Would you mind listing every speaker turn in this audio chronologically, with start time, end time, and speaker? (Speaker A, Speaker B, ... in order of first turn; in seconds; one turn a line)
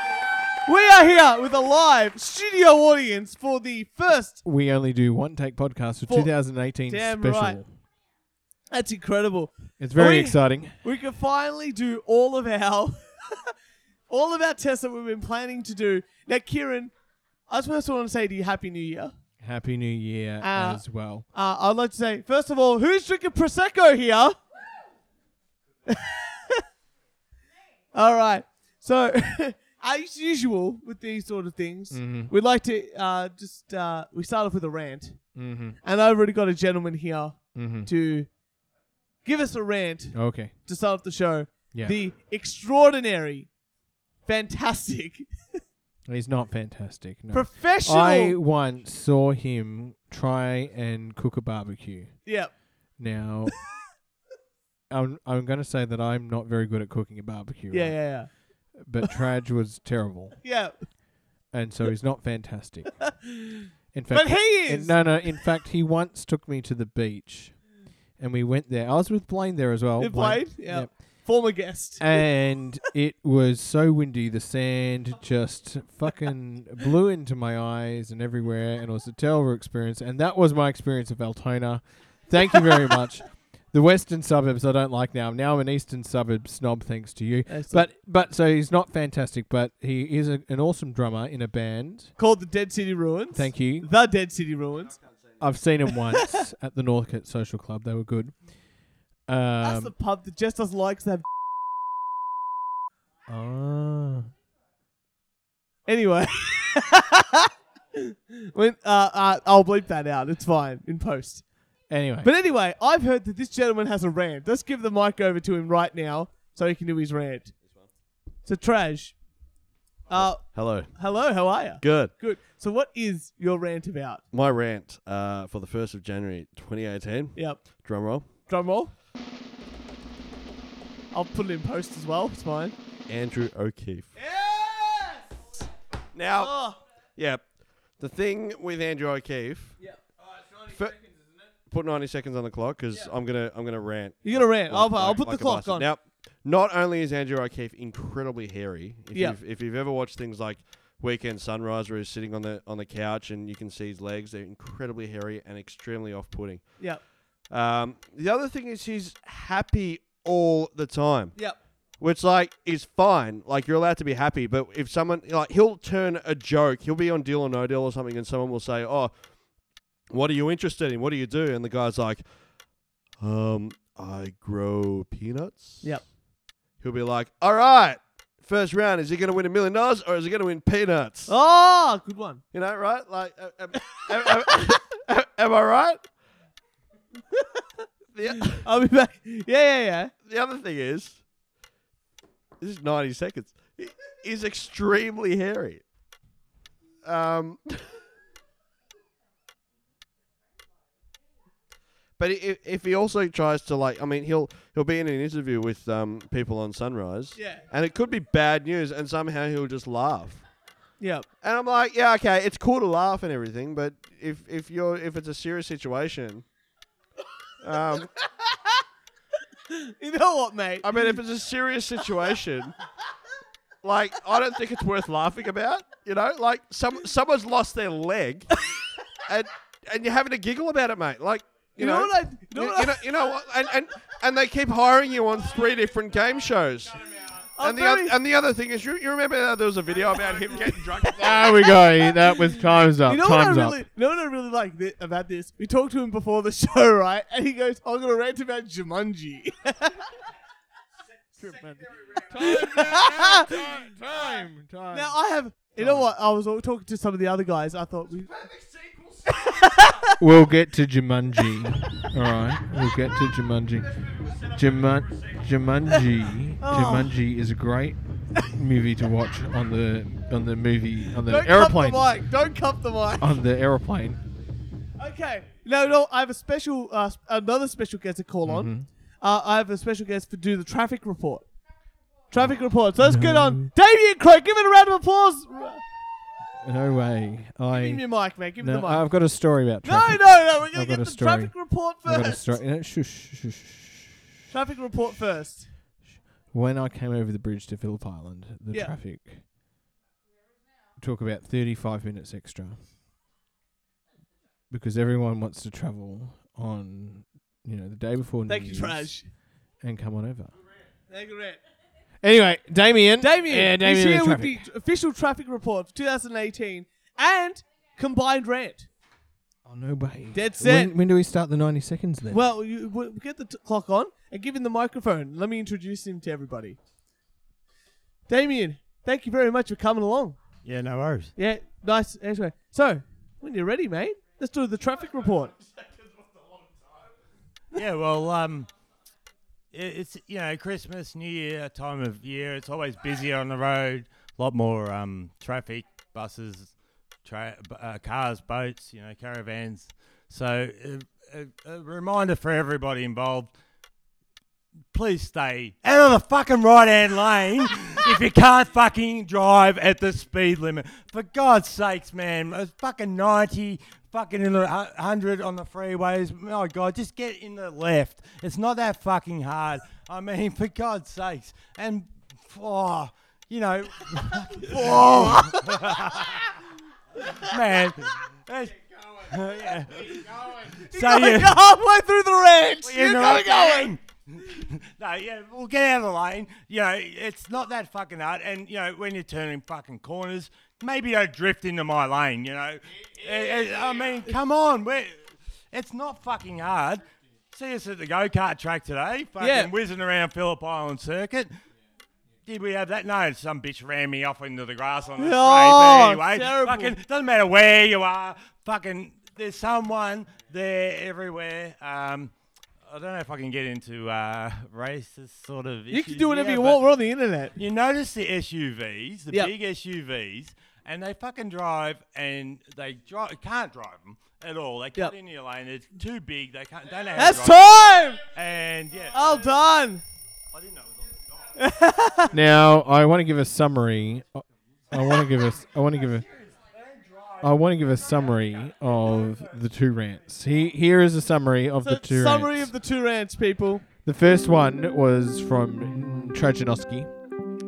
Speaker A: 0.7-4.4
Speaker B: 4.4-7.8
Speaker A: 6.9-7.6
Speaker A: 8.7-13.5
Speaker B: 9.8-10.8
Speaker A: 14.1-16.9
Speaker A: 17.5-19.1
Speaker B: 19.4-21.3
Speaker A: 20.4-24.4
Speaker A: 25.9-26.6
Speaker A: 27.9-35.2
Speaker B: 31.9-32.3
Speaker B: 35.4-35.8
Speaker A: 35.8-38.3
Speaker B: 37.5-37.9
Speaker A: 39.2-43.5
Speaker B: 40.1-40.6
Speaker A: 44.3-45.3
Speaker B: 46.1-52.2
Speaker A: 47.3-48.4
Speaker A: 52.2-52.5
Speaker B: 53.0-53.6
Speaker B: 54.9-58.0
Speaker A: 57.7-58.3
Speaker B: 58.8-60.4
Speaker A: 60.4-60.7
Speaker B: 61.5-63.0
Speaker A: 63.2-65.0
Speaker B: 63.9-67.6
Speaker B: 68.2-71.3
Speaker A: 70.0-72.2
Speaker B: 72.0-92.1
Speaker A: 87.5-87.8
Speaker A: 92.2-95.0
Speaker B: 93.3-93.9
Speaker C: 94.8-95.6
Speaker B: 95.4-98.5
Speaker A: 95.9-96.3
Speaker B: 99.3-99.9
Speaker A: 99.6-101.3
Speaker B: 103.3-104.3
Speaker A: 105.9-111.4
Speaker B: 111.9-112.3
Speaker A: 112.2-117.5
Speaker C: 117.6-117.9
Speaker A: 118.5-119.2
Speaker A: 120.1-124.2
Speaker C: 120.1-121.0
Speaker C: 121.8-122.2
Speaker C: 124.3-128.4
Speaker A: 127.4-127.8
Speaker A: 128.4-128.9
Speaker A: 131.1-132.8
Speaker C: 133.1-134.1
Speaker A: 134.2-135.5
Speaker C: 136.1-136.6
Speaker A: 136.4-136.8
Speaker C: 137.2-139.8
Speaker C: 140.6-141.0
Speaker C: 141.7-156.9
Speaker A: 144.2-145.9
Speaker A: 149.1-149.4
Speaker C: 157.5-161.4
Speaker C: 162.0-169.1
Speaker C: 170.1-172.3
Speaker C: 173.2-176.0
Speaker C: 176.8-181.3
Speaker A: 181.3-182.4
Speaker C: 182.5-186.0
Speaker A: 183.8-184.7
Speaker A: 187.3-187.7
Speaker C: 188.1-188.7
Speaker A: 188.3-190.1
Speaker C: 190.2-191.2
Speaker C: 192.6-195.8
Speaker C: 197.0-197.9
Speaker C: 202.2-210.4
Speaker A: 207.4-207.7
Speaker A: 211.0-211.3
Speaker C: 211.4-216.4
Speaker C: 217.6-218.1
Speaker A: 218.0-218.8
Speaker A: 219.7-221.2
Speaker C: 220.8-222.7
Speaker C: 223.8-228.5
Speaker C: 229.3-241.7
Speaker A: 231.8-233.1
Speaker A: 237.6-238.2
Speaker A: 240.9-250.1
Speaker B: 241.1-243.8
Speaker B: 251.4-255.2
Speaker A: 252.3-254.2
Speaker A: 254.9-258.4
Speaker B: 255.8-256.1
Speaker C: 258.4-259.4
Speaker A: 259.4-260.1
Speaker B: 260.2-272.1
Speaker A: 266.6-267.1
Speaker A: 271.2-273.4
Speaker B: 273.2-274.2
Speaker A: 275.0-281.5
Speaker B: 278.4-278.9
Speaker A: 282.3-285.8
Speaker B: 282.4-283.7
Speaker B: 286.6-288.1
Speaker A: 287.7-289.1
Speaker B: 288.6-294.2
Speaker A: 289.8-292.6
Speaker A: 294.5-295.7
Speaker B: 296.5-299.4
Speaker B: 301.0-302.8
Speaker B: 304.7-309.2
Speaker A: 308.5-309.3
Speaker B: 309.8-310.6
Speaker A: 311.1-311.6
Speaker B: 312.2-314.7
Speaker A: 313.2-318.9
Speaker B: 319.6-322.4
Speaker A: 320.3-321.0
Speaker A: 322.3-326.8
Speaker A: 328.3-330.4
Speaker D: 330.6-331.4
Speaker A: 331.4-335.6
Speaker D: 337.7-338.7
Speaker D: 339.7-346.7
Speaker D: 347.2-353.5
Speaker D: 354.9-376.5
Speaker A: 374.6-376.3
Speaker D: 377.3-381.6
Speaker A: 380.6-383.9
Speaker D: 382.8-401.5
Speaker A: 399.4-399.7
Speaker D: 402.5-412.3
Speaker A: 405.2-406.9
Speaker D: 412.8-416.8
Speaker A: 415.9-417.6
Speaker D: 417.6-429.5
Speaker A: 427.1-428.3
Speaker A: 429.1-430.0
Speaker D: 430.5-431.6
Speaker A: 431.6-432.3
Speaker B: 432.3-436.3
Speaker D: 436.1-437.6
Speaker B: 437.4-442.7
Speaker A: 441.8-443.9
Speaker B: 444.1-447.1